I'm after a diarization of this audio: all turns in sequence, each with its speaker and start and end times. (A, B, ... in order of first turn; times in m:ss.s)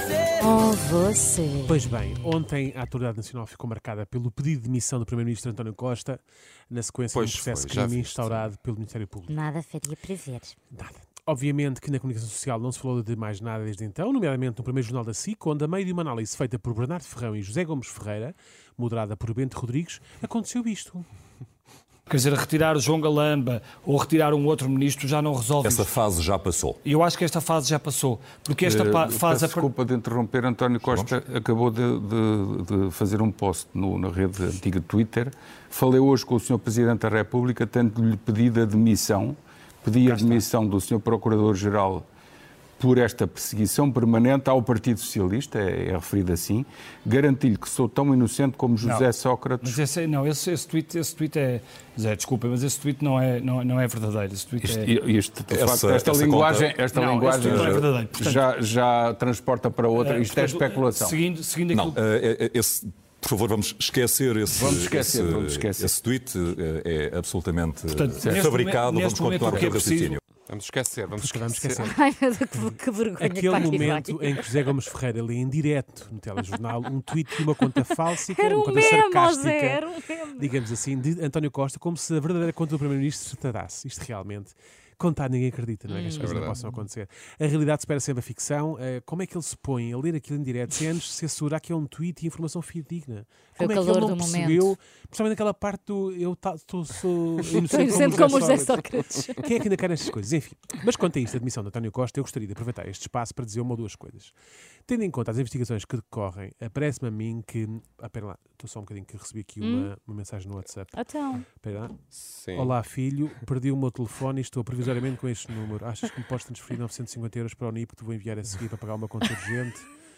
0:00.4-0:01.8 A
0:01.7-0:09.4 B
0:07.1-0:08.5 C
0:09.3-0:10.5 A
0:10.7-0:21.1 B
0:22.1-0:25.9 D
0:25.6-0:26.8 E
0:26.8-0:29.7 D
0:28.6-0:42.0 F
0:30.8-0:31.1 E
0:40.0-0:40.4 D
0:42.8-0:49.8 F
0:49.6-0:54.9 D
0:54.6-1:01.2 F
0:55.5-0:56.8 E
0:56.9-0:58.4 D
0:57.4-0:57.9 E
1:00.0-1:02.0 D
1:01.7-1:10.2 E
1:04.5-1:05.9 F
1:07.9-1:10.2 D
1:10.5-1:11.9 C
1:11.1-1:11.9 B
1:11.8-1:14.5 A
1:13.2-1:19.8 B
1:18.2-1:20.5 A
1:20.4-1:44.3 B
1:25.9-1:26.5 A
1:26.1-1:26.6 C
1:33.6-1:34.7 A
1:37.6-1:39.4 A
1:44.8-1:52.0 B
1:49.6-1:49.9 A
1:50.9-1:51.4 A
1:52.1-1:52.7 C
1:52.5-1:59.9 B